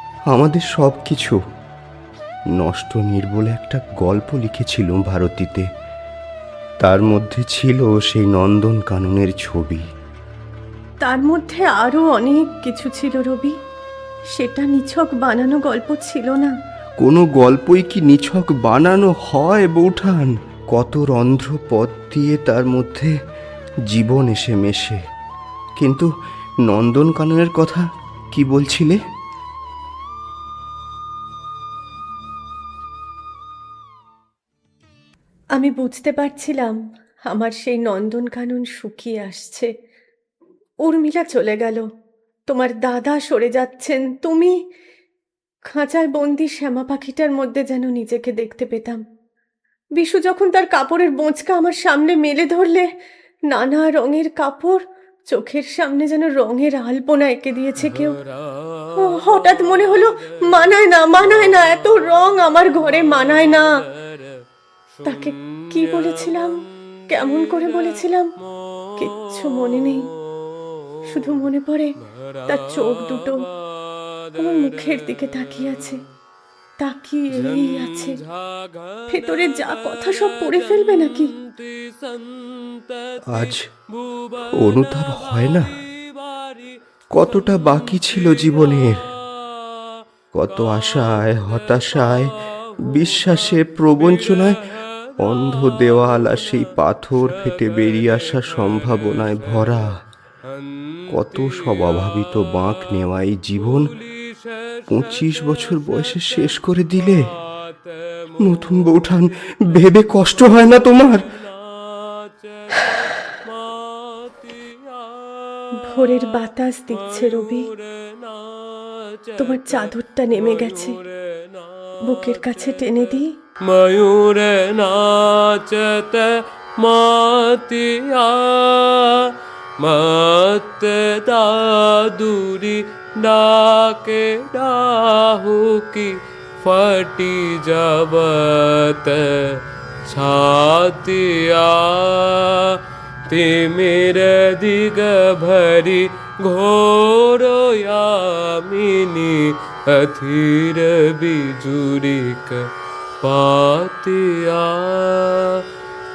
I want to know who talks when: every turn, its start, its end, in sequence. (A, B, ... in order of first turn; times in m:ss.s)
0:00.3-0:01.4 A
0:02.6-0:05.7 A
0:06.8-0:09.8 A
0:11.0-0:13.5 B
0:14.4-0:16.5 B
0:17.0-0:23.1 A
0:23.9-0:25.0 A
0:25.8-0:26.1 A
0:26.7-0:29.0 A
0:35.6-0:36.8 B
0:37.3-0:39.7 B
0:40.8-0:41.8 B
0:42.5-0:44.5 B
0:45.7-0:49.0 B
0:50.0-0:52.9 B
0:53.5-0:58.2 B
0:58.0-1:00.1 C
0:59.0-1:03.7 B
1:02.9-1:03.7 C
1:05.0-1:06.6 B
1:05.8-1:06.4 C
1:07.1-1:08.3 B
1:09.0-1:10.1 B
1:11.1-1:11.9 B
1:12.5-1:13.4 B
1:12.8-1:13.3 C
1:14.3-1:14.6 C
1:14.4-1:16.0 B
1:16.8-1:18.2 B
1:17.4-1:19.2 C
1:19.1-1:21.3 B
1:20.8-1:23.4 C
1:23.3-1:23.7 A
1:24.0-1:25.2 C
1:24.5-1:25.7 A
1:26.3-1:26.7 C
1:27.1-1:29.0 A
1:30.3-1:32.3 A
1:32.7-1:33.0 C
1:32.8-1:34.6 A
1:35.2-1:40.0 A
1:35.5-1:36.1 C
1:37.6-1:39.7 C
1:40.9-1:42.2 C
1:41.1-1:43.9 A
1:43.7-1:46.3 C
1:44.9-1:47.2 A
1:48.1-1:48.8 C
1:48.4-1:51.2 A
1:51.7-1:55.8 C
1:55.8-1:57.7 B
1:57.2-1:59.8 C
1:59.4-2:01.0 B
2:00.5-2:03.0 C
2:02.1-2:03.3 B
2:03.6-2:32.7 C
2:33.2-2:35.6 C